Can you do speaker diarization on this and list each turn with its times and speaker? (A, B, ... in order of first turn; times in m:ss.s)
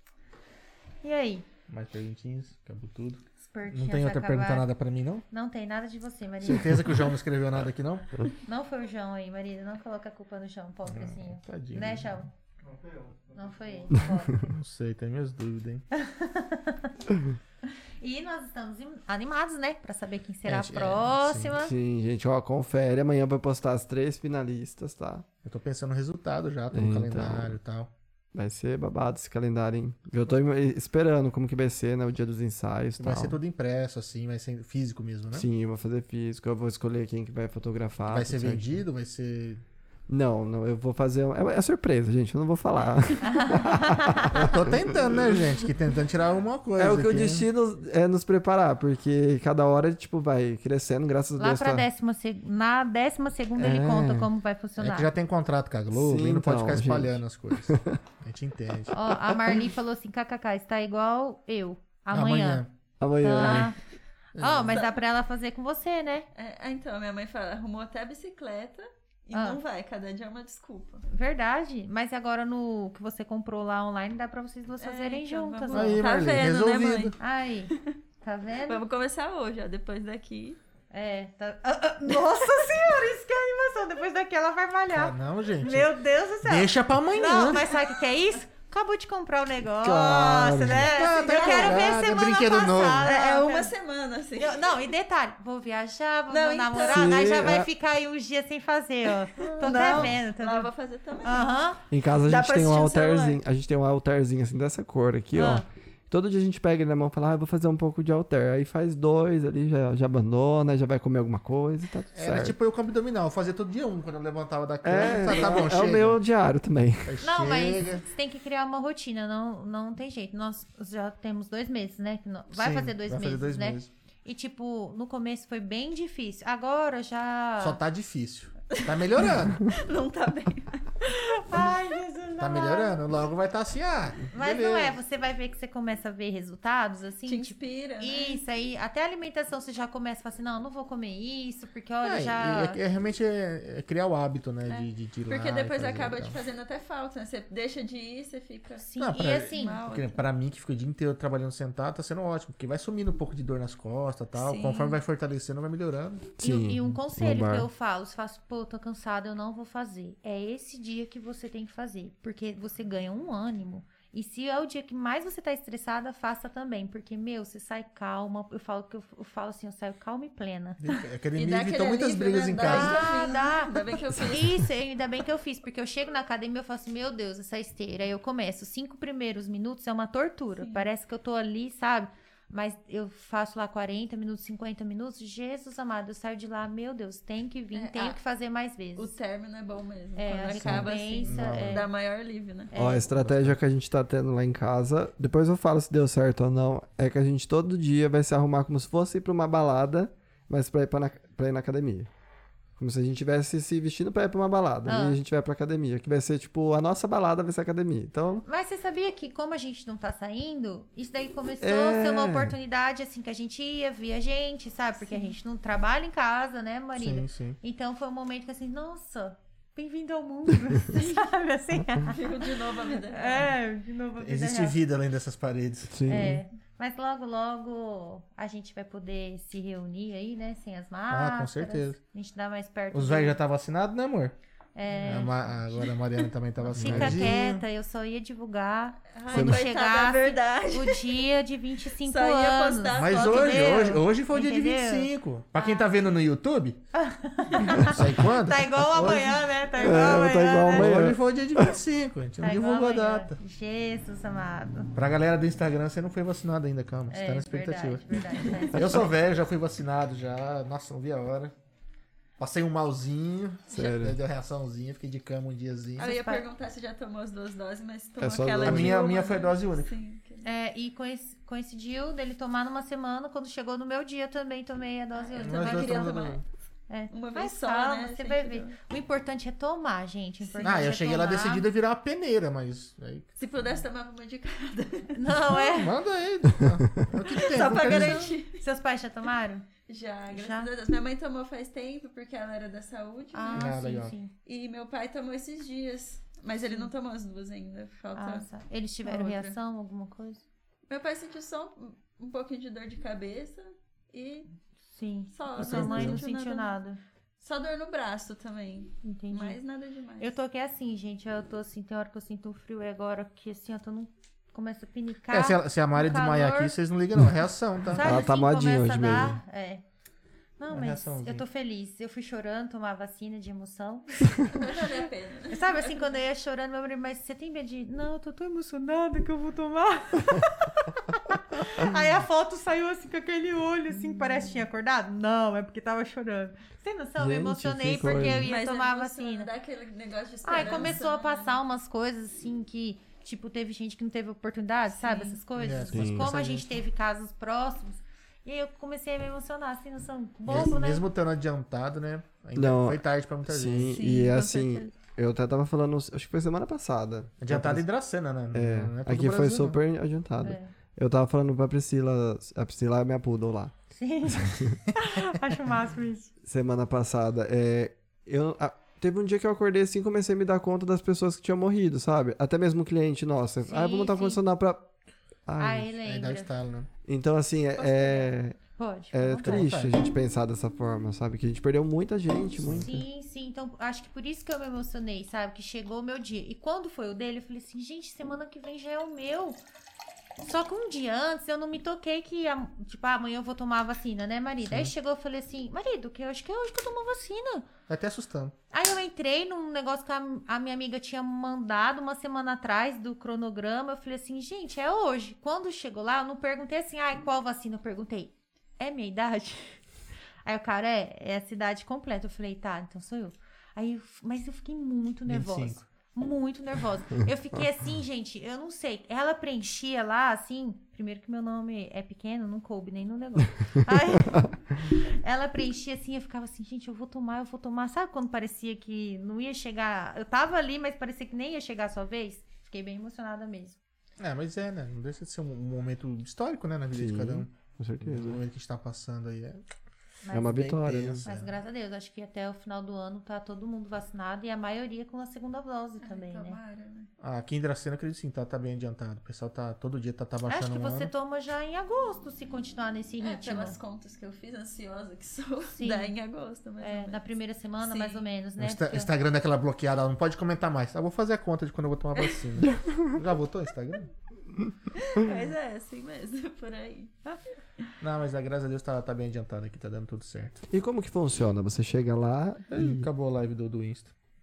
0:01.0-0:01.5 A
0:01.7-0:05.2 B
0:03.5-0:04.7 A
0:05.3-0:07.1 A
0:06.4-0:08.3 B
0:08.4-0:12.3 A
0:10.9-0:12.2 B
0:13.3-0:14.6 A
0:14.3-0:15.8 B
0:15.9-0:16.9 A
0:18.0-0:21.7 A
0:20.4-0:21.6 B
0:21.6-0:25.2 C
0:25.4-0:27.9 B
0:26.7-0:27.6 C
0:28.3-0:33.4 C
0:33.0-0:35.5 B
0:35.3-0:38.8 C
0:38.1-0:39.6 B
0:40.1-0:45.6 C
0:43.2-0:44.5 A
0:44.3-0:47.4 B
0:46.8-0:51.8 C
0:51.4-0:55.1 A
0:53.6-0:54.3 C
0:54.8-0:59.0 B
0:55.9-0:58.0 C
0:58.9-1:02.6 A
0:59.0-0:59.5 C
1:02.1-1:02.7 B
1:03.0-1:03.7 C
1:03.1-1:03.8 A
1:03.4-1:03.7 D
1:04.4-1:04.8 B
1:04.4-1:06.3 A
1:04.7-1:05.0 D
1:06.3-1:11.0 D
1:09.3-1:09.6 A
1:11.1-1:16.1 A
1:14.8-1:17.2 D
1:15.7-1:17.1 B
1:17.2-1:18.8 A
1:17.7-1:17.9 D
1:18.6-1:20.6 D
1:20.9-1:33.7 A
1:24.9-1:27.7 B
1:29.8-1:30.9 C
1:30.8-1:33.1 B
1:31.2-1:32.0 D
1:33.0-1:34.7 D
1:34.4-1:40.7 A
1:36.3-1:37.5 D
1:36.8-1:37.7 C
1:39.4-1:41.5 D
1:39.6-1:40.1 B
1:41.2-1:41.8 A
1:41.9-1:52.6 C
1:42.2-1:43.4 D
1:45.3-1:45.6 A
1:52.1-1:56.2 B
1:54.8-1:57.2 C
1:57.0-1:58.0 B
1:57.2-2:07.8 A
2:02.5-2:03.9 B
2:07.6-2:09.7 B
2:08.7-2:11.6 D
2:11.0-2:13.0 A
2:12.4-2:15.0 B
2:14.3-2:22.8 A
2:17.3-2:18.4 D
2:22.0-2:26.4 B
2:24.7-2:28.8 D
2:28.8-2:29.8 A
2:29.0-2:36.3 B
2:29.4-2:30.2 D
2:34.3-2:35.0 D
2:36.4-2:50.8 A
2:36.4-2:37.7 C
2:50.8-2:53.2 B
2:51.3-2:54.5 D
2:52.6-3:09.1 A
3:00.6-3:00.9 D
3:07.7-3:08.2 D
3:09.0-3:12.7 D
3:10.2-3:11.9 A
3:10.5-3:11.8 B
3:12.7-3:13.1 A
3:12.7-3:22.1 C
3:13.1-3:13.6 B
3:22.8-3:28.4 C
3:24.8-3:25.2 A
3:28.4-3:44.8 A
3:31.6-3:32.6 C
3:37.0-3:37.6 B
3:40.9-3:41.3 D
3:42.0-3:43.5 D
3:44.2-3:46.0 B
3:45.9-3:46.4 C
3:46.0-3:53.4 A
3:51.1-3:52.0 B
3:52.9-3:54.4 B
3:54.7-3:55.5 A
3:54.9-3:57.6 B
3:55.1-3:55.9 D
3:56.7-4:05.9 A
3:56.8-3:57.4 C
3:59.1-4:01.2 D
3:59.3-3:59.6 C
4:02.0-4:04.0 D
4:02.9-4:06.8 B
4:06.9-4:10.9 A
4:07.8-4:13.3 B
4:09.8-4:11.8 C
4:12.4-4:14.9 A
4:14.9-4:21.5 B
4:17.1-4:19.1 A
4:22.4-4:26.1 B
4:23.7-4:24.2 C
4:26.0-4:30.4 D
4:26.0-4:26.4 A
4:28.2-4:29.0 C
4:28.6-4:29.9 B
4:30.4-4:36.2 A
4:35.3-4:36.5 D
4:35.4-4:36.4 B
4:36.9-4:41.6 A
4:37.1-4:38.8 D
4:40.4-4:40.9 D
4:40.6-4:43.3 B
4:43.4-4:45.2 D
4:45.1-4:46.0 A
4:45.5-4:48.3 B
4:47.3-4:48.6 D
4:47.6-4:49.7 A
4:49.9-4:53.8 D
4:50.3-4:50.7 A
4:53.3-4:54.3 A
4:53.5-4:54.1 B
4:54.4-4:58.5 D
4:58.2-5:00.4 A
4:59.0-4:59.6 D
5:00.9-5:04.5 D
5:04.9-5:07.0 A
5:05.3-5:06.8 D
5:05.6-5:06.2 B
5:07.4-5:10.3 D
5:09.0-5:09.6 A
5:10.2-5:16.7 A
5:15.3-5:18.0 B
5:17.9-5:19.8 A
5:17.9-5:19.4 C
5:20.6-5:39.5 A
5:20.7-5:21.4 B
5:24.5-5:26.1 D
5:37.2-5:38.5 C
5:38.1-5:41.6 D
5:40.4-5:51.0 A
5:44.9-5:45.4 D
5:45.6-5:46.7 B
5:45.9-5:46.3 C
5:50.5-5:54.0 B
5:52.6-5:57.8 C
5:53.9-5:54.9 D
5:57.4-5:59.8 B
5:58.5-6:04.8 C
6:00.4-6:00.7 A
6:03.9-6:06.3 A
6:06.4-6:14.9 C
6:13.6-6:14.4 A
6:15.4-6:15.9 C
6:15.6-6:16.5 A
6:16.0-6:16.9 B
6:17.0-6:18.6 C
6:17.8-6:19.7 A
6:19.1-6:23.0 C
6:19.4-6:20.0 B
6:22.6-6:23.0 B
6:22.7-6:29.6 A
6:30.4-6:37.7 A
6:34.7-6:34.9 B
6:37.9-6:38.5 B
6:38.7-6:49.8 A
6:50.4-7:13.8 A
6:55.3-6:55.8 B
7:14.2-7:19.6 B
7:16.9-7:18.4 C
7:20.2-7:20.6 A
7:20.3-7:21.3 C
7:20.3-7:21.5 B
7:21.2-7:26.6 A
7:26.0-7:27.1 D
7:27.2-7:31.1 B
7:30.5-7:33.8 A
7:33.2-7:37.2 D
7:35.7-7:36.1 A
7:36.8-7:39.1 A
7:37.8-7:38.2 D
7:38.6-7:44.1 B
7:42.7-7:43.0 C
7:44.9-7:47.1 D
7:48.0-7:50.6 B
7:50.7-7:53.1 C
7:52.7-7:54.1 B